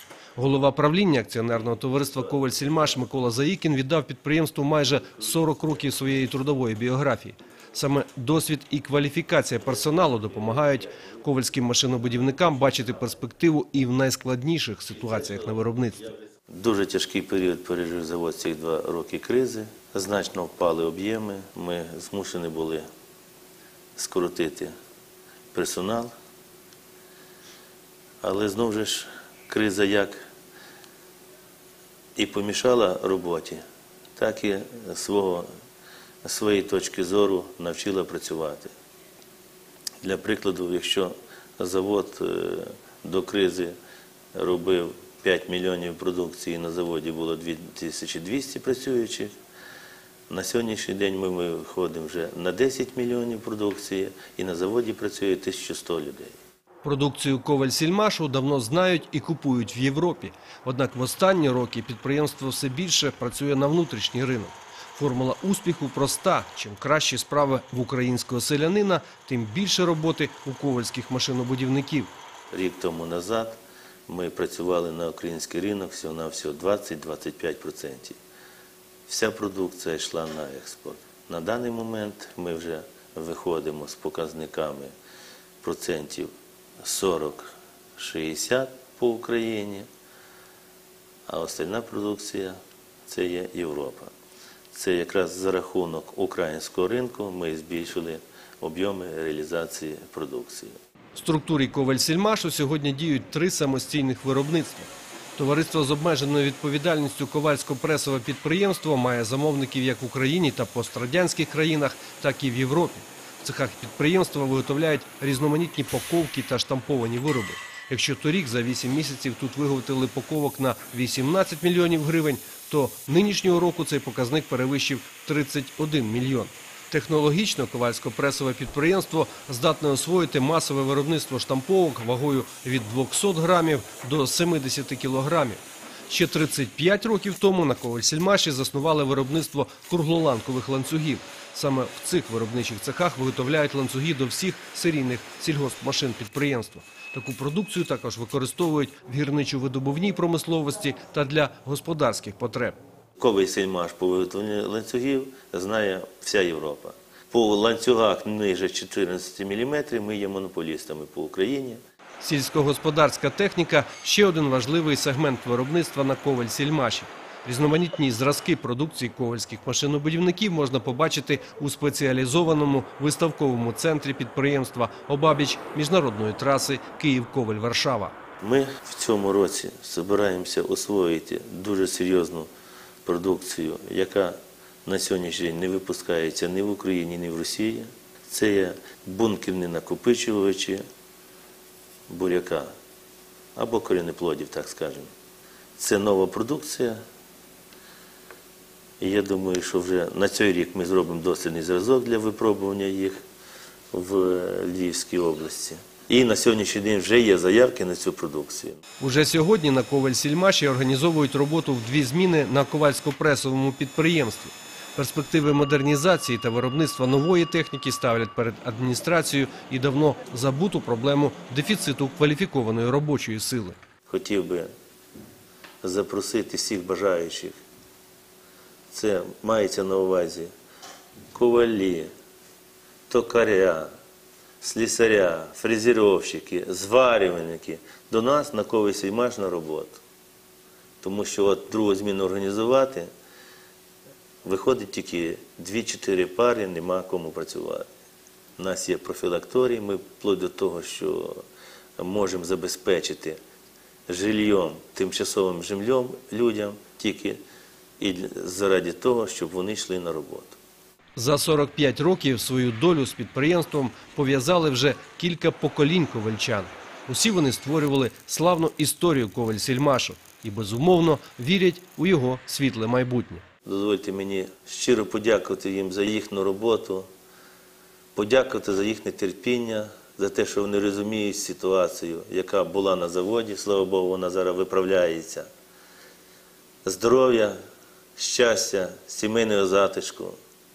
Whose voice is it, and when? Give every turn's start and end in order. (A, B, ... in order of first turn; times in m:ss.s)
0:00.4-0:16.1 A
0:16.5-0:22.9 B
0:24.0-0:24.7 B
0:25.5-0:26.1 B
0:28.2-0:30.3 B
0:32.2-0:33.6 B
0:34.2-0:35.5 B
0:36.2-0:38.7 B
0:40.0-0:43.8 B
0:44.3-0:49.3 B
0:50.3-0:56.4 B
0:56.8-1:12.1 A
1:12.5-1:18.2 B
1:19.1-1:24.9 B
1:25.6-1:26.3 B
1:26.8-1:29.9 B
1:31.3-1:34.1 B
1:34.7-1:40.8 B
1:41.1-2:32.8 A
2:33.2-2:41.8 B
2:42.2-2:58.2 A
2:58.4-3:02.5 B
3:03.0-3:10.8 B
3:12.1-3:12.7 B
3:13.5-3:15.1 B
3:15.8-3:17.0 B
3:19.0-3:23.2 B
3:23.9-3:28.8 B
3:29.0-3:43.8 A
3:44.1-3:44.7 B
3:45.8-3:47.6 B
3:48.9-3:50.5 B
3:51.3-3:52.1 B
3:53.1-3:53.9 B
3:54.6-4:00.0 B
4:01.0-4:03.1 B
4:04.4-4:07.8 B
4:08.6-4:11.4 B
4:12.0-4:13.4 B
4:14.1-4:17.4 B
4:18.0-4:20.6 B
4:21.2-4:33.4 A
4:33.6-4:37.1 B
4:38.1-4:45.5 B
4:46.8-4:47.6 B
4:48.2-4:50.4 B